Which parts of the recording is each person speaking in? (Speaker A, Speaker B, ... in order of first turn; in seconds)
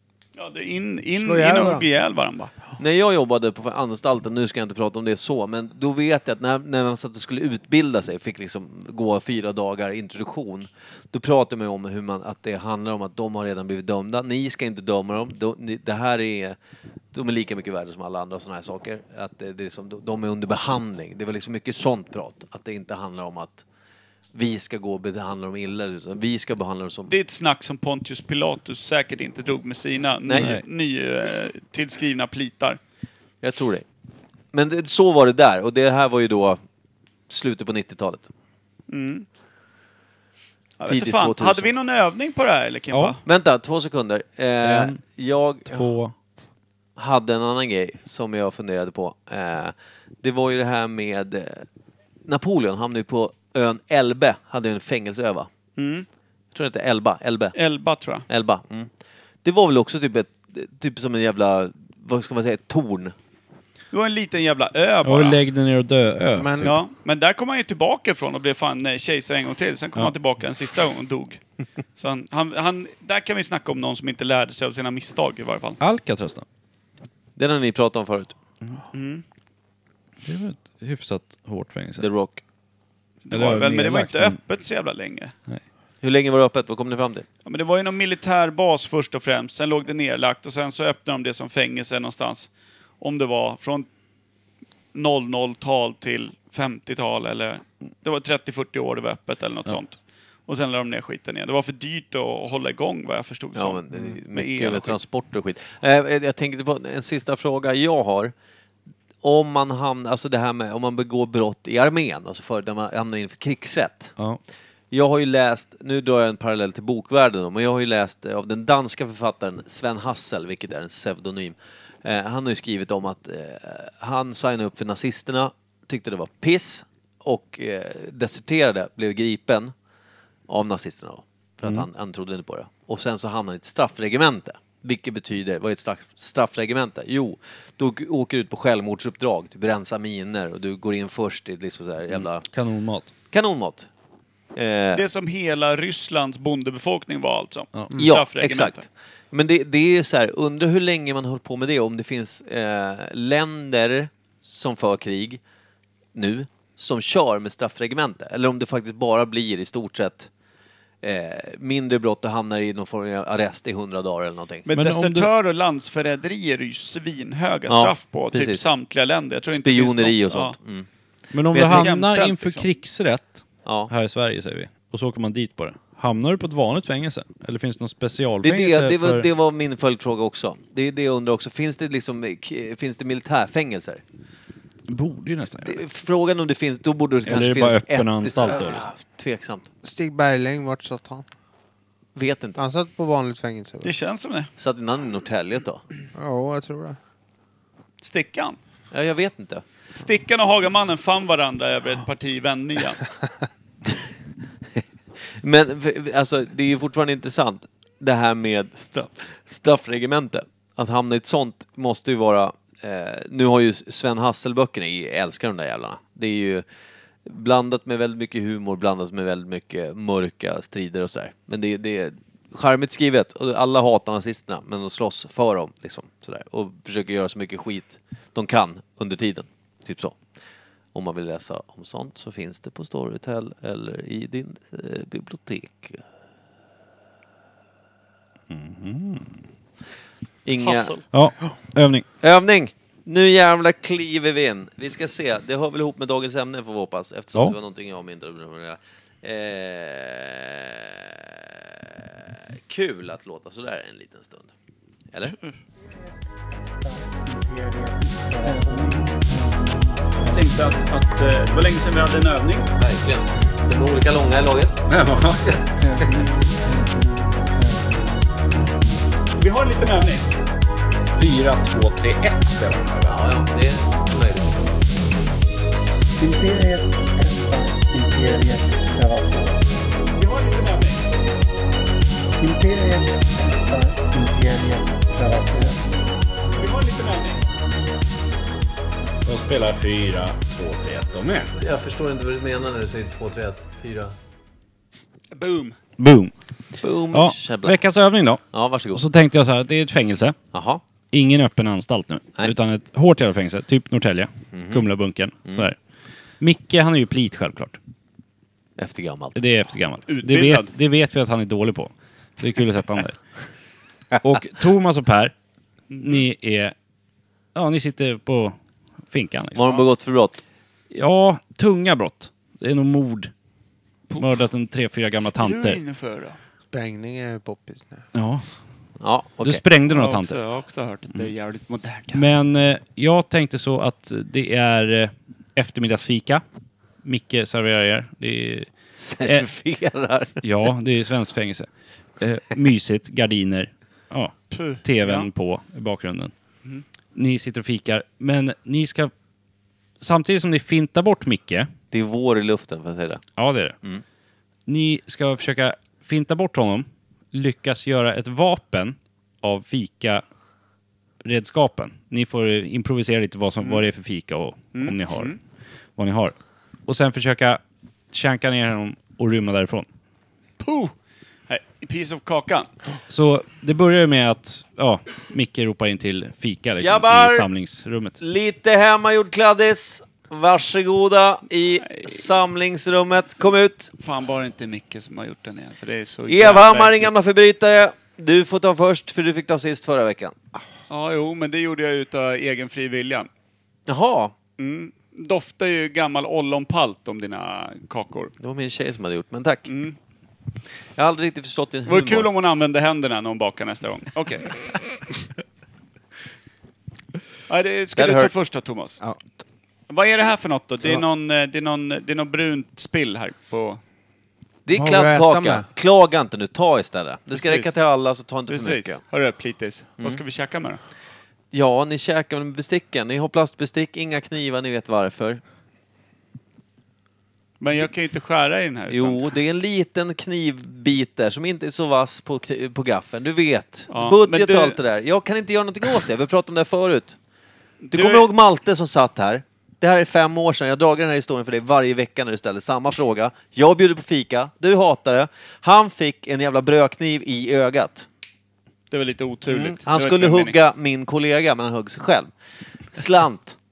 Speaker A: 0.4-2.5, 27.1-32.8, 38.9-39.3, 40.8-43.2, 55.8-56.1, 57.5-58.3, 63.9-65.4, 66.6-71.4, 72.0-75.8, 78.9-79.2, 83.3-85.3, 87.5-92.5, 93.0-93.9, 94.9-100.0, 100.5-105.0, 144.9-148.8, 164.7-170.6, 171.6-172.7, 193.8-194.5, 198.0-198.6, 199.9-203.0, 240.6-241.0, 255.3-255.5, 260.3-262.7, 269.4-270.4, 280.1-281.1, 286.6-287.4, 295.3-295.8, 310.1-310.7, 315.9-316.3, 325.2-326.4, 329.9-332.2, 344.5-345.3, 363.6-363.9, 364.7-365.4, 370.6-370.9, 371.5-372.7, 381.9-382.2, 384.0-387.1, 390.9-393.3, 394.6-398.3, 399.7-400.0, 401.9-404.6, 407.5-409.0, 409.9-413.8, 417.3-417.7, 418.5-420.8, 427.6-429.3, 433.9-434.8, 437.8-438.3, 448.9-450.6
Speaker B: 1.2-1.9, 66.4-66.7, 189.8-191.3, 192.6-193.9, 196.2-197.0, 326.7-328.1, 409.0-409.3, 414.8-415.7
Speaker C: 2.8-16.6, 17.1-23.6, 24.4-27.1, 30.2-30.5, 33.4-33.9, 34.5-36.6, 37.3-38.3, 40.9-41.7, 43.2-45.9, 47.0-51.7, 52.3-55.5, 56.5-57.6, 58.3-58.9, 59.4-63.1, 77.4-78.4, 82.0-82.4, 86.0-87.2, 103.5-108.3, 109.2-114.1, 114.9-129.7, 130.5-142.4, 143.3-143.9, 144.6-145.0, 147.9-155.4, 156.2-160.3, 161.0-164.7, 167.7-168.6, 169.5-170.9, 171.5-171.9, 173.7-173.9, 178.4-184.0, 185.6-189.7, 192.2-192.6, 194.6-195.8, 198.9-199.6, 205.4-216.6, 217.2-230.2, 230.9-236.0, 240.5-240.9, 242.2-251.2, 252.7-254.5, 262.8-264.8, 273.1-274.6, 291.6-294.1, 296.8-297.8, 298.5-299.1, 300.5-300.8, 304.5-304.9, 305.4-305.7, 308.8-309.4, 319.6-320.4, 329.0-329.6, 339.0-340.4, 351.9-353.2, 376.8-377.5, 378.2-383.9, 386.3-390.4, 393.9-394.3, 398.4-399.7, 401.0-402.3, 407.9-408.3, 414.7-419.0, 421.5-425.4, 428.9-437.2, 437.9-448.1, 449.5-452.3, 452.9-453.6
Speaker D: 30.4-30.6, 42.9-43.2, 44.6-45.0, 45.7-46.1, 65.0-66.8, 75.8-76.5, 80.2-82.1, 83.3-84.4, 142.1-143.1, 164.7-165.3, 171.3-179.2, 184.9-185.8, 187.3-188.8, 238.5-239.4, 241.1-242.1, 264.9-265.6, 271.1-273.2, 289.2-291.5, 296.0-296.3, 297.1-300.4, 301.1-305.8, 306.4-307.8, 309.4-313.2, 314.2-315.3, 316.0-316.8, 317.6-318.6, 319.1-319.7, 320.9-323.3, 324.2-325.8, 328.1-328.4, 329.4-330.4, 332.1-336.4, 337.0-338.7, 340.4-341.7, 342.2-346.3, 347.1-349.1, 350.0-351.7, 353.4-353.8, 354.7-360.2, 361.2-365.4, 366.0-367.6, 368.1-369.9, 373.1-378.2
Speaker E: 255.8-259.5, 260.2-260.8, 265.8-266.9, 267.4-268.0, 276.2-279.7, 282.4-285.9